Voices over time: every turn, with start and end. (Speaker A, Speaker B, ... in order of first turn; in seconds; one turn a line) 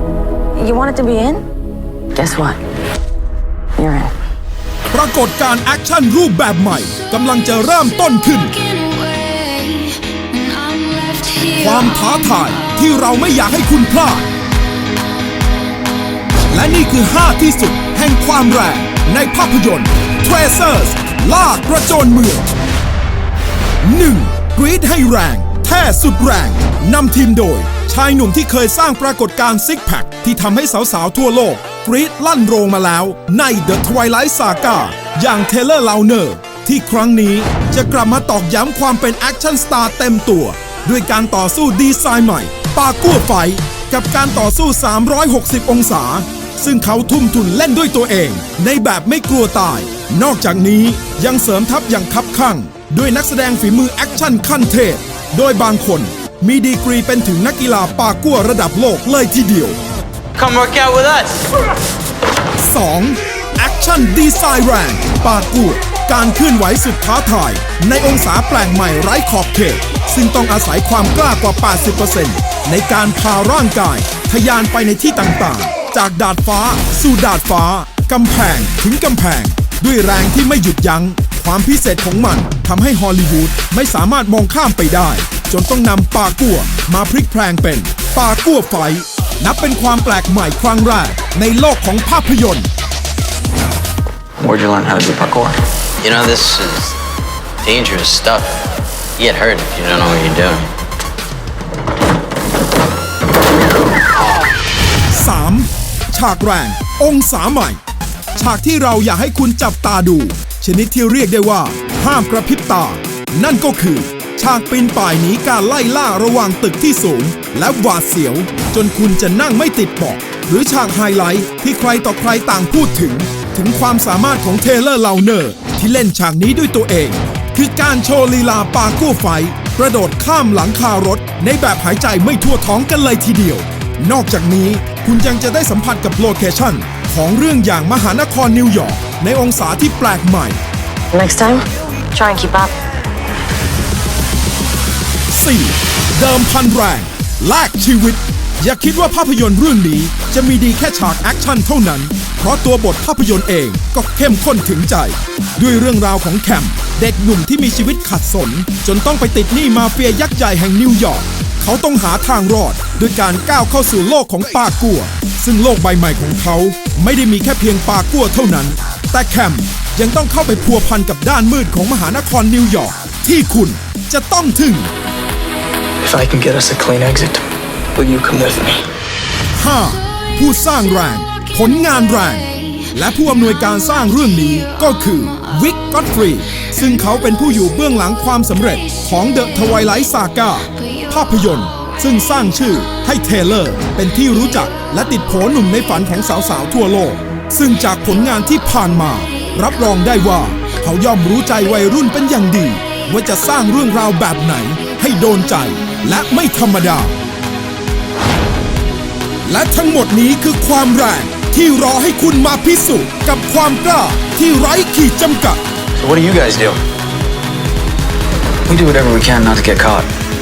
Speaker A: 0.6-1.4
Speaker A: 2.1-2.6
Speaker A: 3.8-4.1
Speaker B: 4.9-8.7
Speaker B: 11.2-14.3
Speaker B: 16.5-22.5
Speaker B: 23.8-59.8
Speaker B: 62.6-92.7
Speaker C: 94.4-95.5
Speaker D: 96.0-97.0
Speaker D: 97.6-98.6
Speaker D: 99.2-100.7
Speaker B: 105.1-107.8
Speaker B: 108.3-140.6
Speaker A: 141.1-142.7
Speaker B: 145.3-174.9
Speaker E: 176.0-178.8
Speaker B: 179.5-207.1
Speaker B: 209.4-215.6
Speaker C: 216.0-216.8
Speaker C: 218.7-220.1